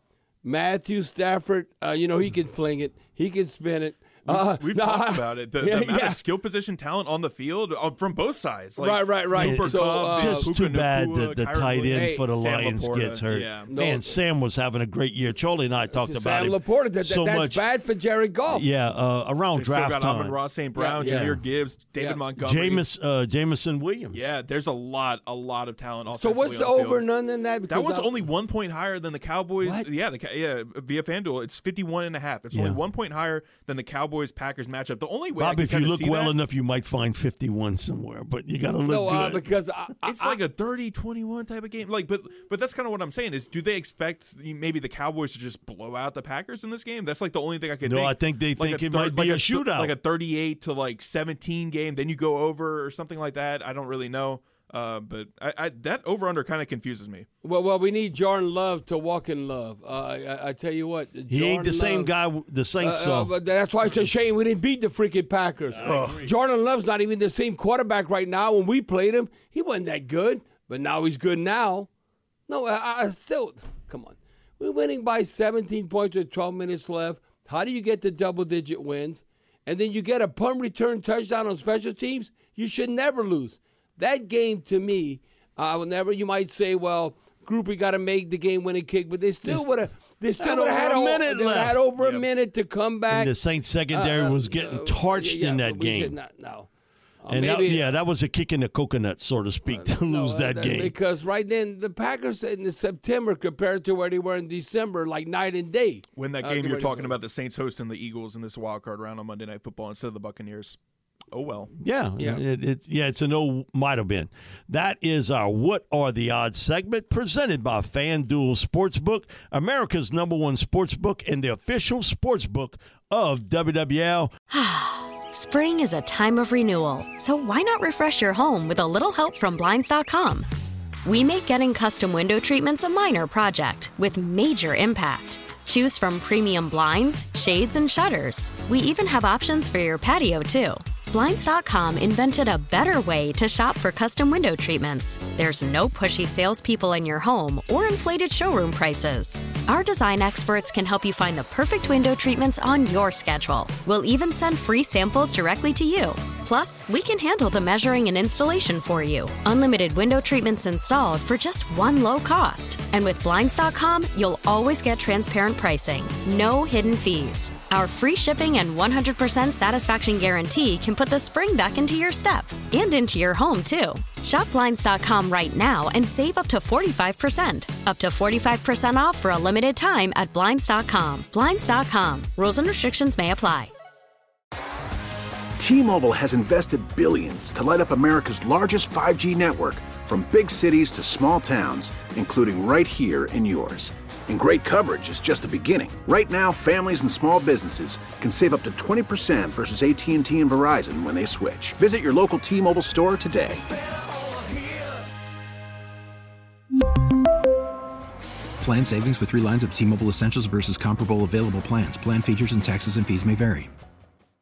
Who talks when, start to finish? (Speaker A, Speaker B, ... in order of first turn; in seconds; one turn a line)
Speaker A: 0.4-6.2
Speaker B: 4.2-13.7
Speaker A: 8.8-10.5
Speaker C: 9.4-17.6
Speaker A: 11.9-12.2
Speaker A: 13.7-14.2
Speaker A: 15.9-18.6
Speaker C: 18.5-20.4
Speaker B: 19.5-22.9
Speaker A: 20.8-21.4
Speaker C: 21.0-21.4
Speaker A: 21.9-22.2
Speaker C: 22.4-24.2
Speaker B: 24.1-27.0
Speaker A: 26.1-28.2
Speaker B: 27.7-36.4
Speaker C: 32.5-32.8
Speaker C: 35.4-39.4
Speaker A: 38.9-40.4
Speaker B: 40.0-57.3
Speaker C: 47.8-49.9
Speaker A: 57.4-62.1
Speaker C: 61.3-63.3
Speaker A: 62.8-71.9
Speaker C: 65.7-66.3
Speaker B: 65.8-66.3
Speaker A: 72.5-93.3
Speaker C: 89.4-89.7
Speaker C: 90.4-91.8
Speaker B: 92.0-92.3
Speaker C: 93.1-96.2
Speaker A: 93.9-96.7
Speaker A: 97.2-97.9
Speaker C: 97.3-100.9
Speaker A: 99.7-107.2
Speaker B: 106.1-110.8
Speaker B: 111.3-111.7
Speaker C: 111.8-124.3
Speaker D: 124.5-130.5
Speaker D: 131.1-183.7
Speaker E: 185.6-203.6
Speaker F: 208.6-213.7